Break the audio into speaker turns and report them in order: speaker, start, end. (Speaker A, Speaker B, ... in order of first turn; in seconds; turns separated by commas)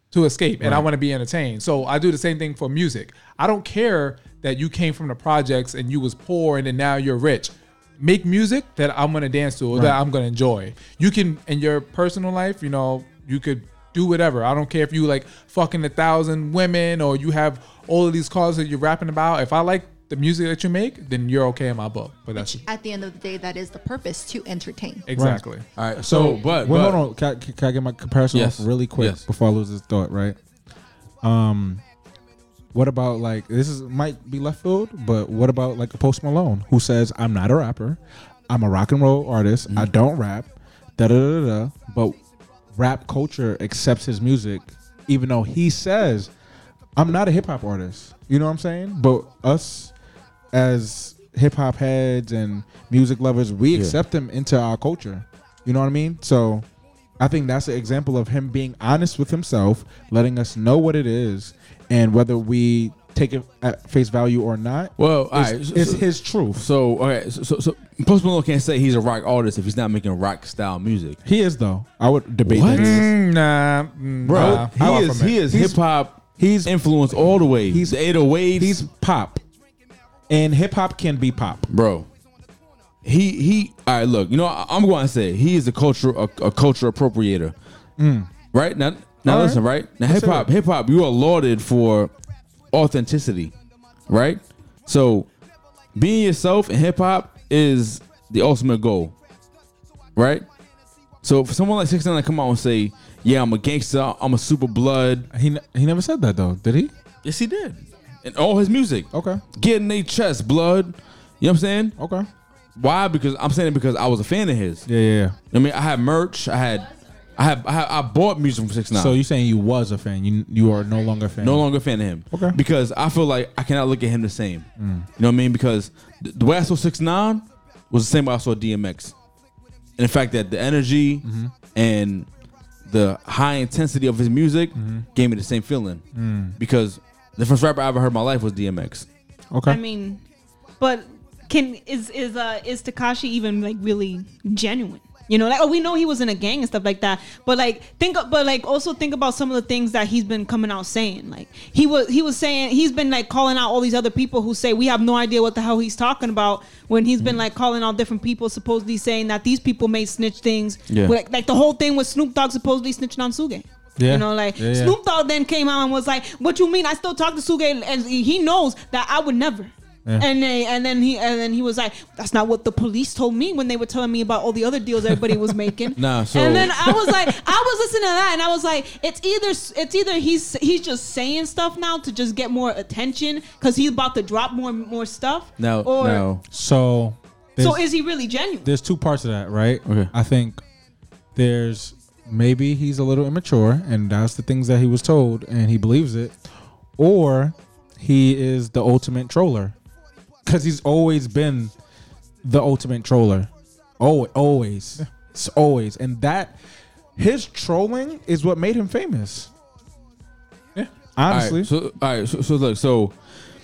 Speaker A: 0.1-22.6, Speaker B: 0.6-0.9, Speaker B: 9.7-10.0, Speaker C: 22.4-25.1, Speaker A: 25.1-25.7, Speaker B: 25.1-25.4, Speaker D: 25.8-27.0, Speaker B: 26.0-30.4, Speaker D: 28.3-29.2, Speaker B: 31.2-31.8, Speaker B: 32.7-42.2, Speaker B: 42.7-46.3, Speaker B: 47.0-49.9, Speaker B: 50.5-56.7, Speaker B: 57.2-66.7, Speaker D: 65.0-71.2, Speaker B: 71.2-73.1, Speaker D: 72.5-73.1, Speaker A: 72.7-75.4, Speaker B: 74.2-75.8, Speaker D: 74.3-78.8, Speaker B: 76.4-78.0, Speaker B: 78.5-79.4, Speaker B: 80.3-81.7, Speaker D: 81.7-82.1, Speaker D: 83.0-87.5, Speaker B: 88.0-88.3, Speaker D: 88.5-92.1, Speaker B: 89.2-90.5, Speaker D: 92.7-93.5, Speaker D: 94.1-95.3, Speaker D: 96.0-99.1, Speaker D: 100.2-100.5, Speaker D: 101.2-105.3, Speaker B: 105.3-106.9, Speaker D: 107.2-112.0, Speaker B: 109.1-109.4, Speaker B: 112.0-112.3, Speaker D: 112.8-114.9, Speaker B: 114.9-115.4, Speaker D: 115.5-119.2, Speaker B: 118.9-121.7, Speaker D: 121.4-129.1, Speaker B: 122.3-122.6, Speaker B: 124.8-125.1, Speaker D: 130.0-132.3, Speaker B: 131.2-131.5, Speaker D: 132.9-136.0, Speaker B: 134.8-135.1, Speaker B: 136.2-136.6, Speaker D: 136.6-139.1, Speaker B: 139.5-139.8, Speaker E: 139.7-140.2, Speaker E: 140.8-186.3, Speaker D: 160.9-161.2, Speaker B: 164.0-165.0, Speaker D: 176.0-177.1, Speaker D: 185.6-186.4, Speaker B: 186.5-187.8, Speaker E: 187.6-188.7, Speaker B: 188.6-190.6, Speaker D: 189.9-190.1, Speaker B: 191.3-196.4, Speaker B: 197.0-199.8, Speaker B: 200.4-201.7, Speaker B: 202.4-206.6, Speaker B: 207.2-209.5, Speaker B: 211.2-211.7, Speaker D: 211.3-213.2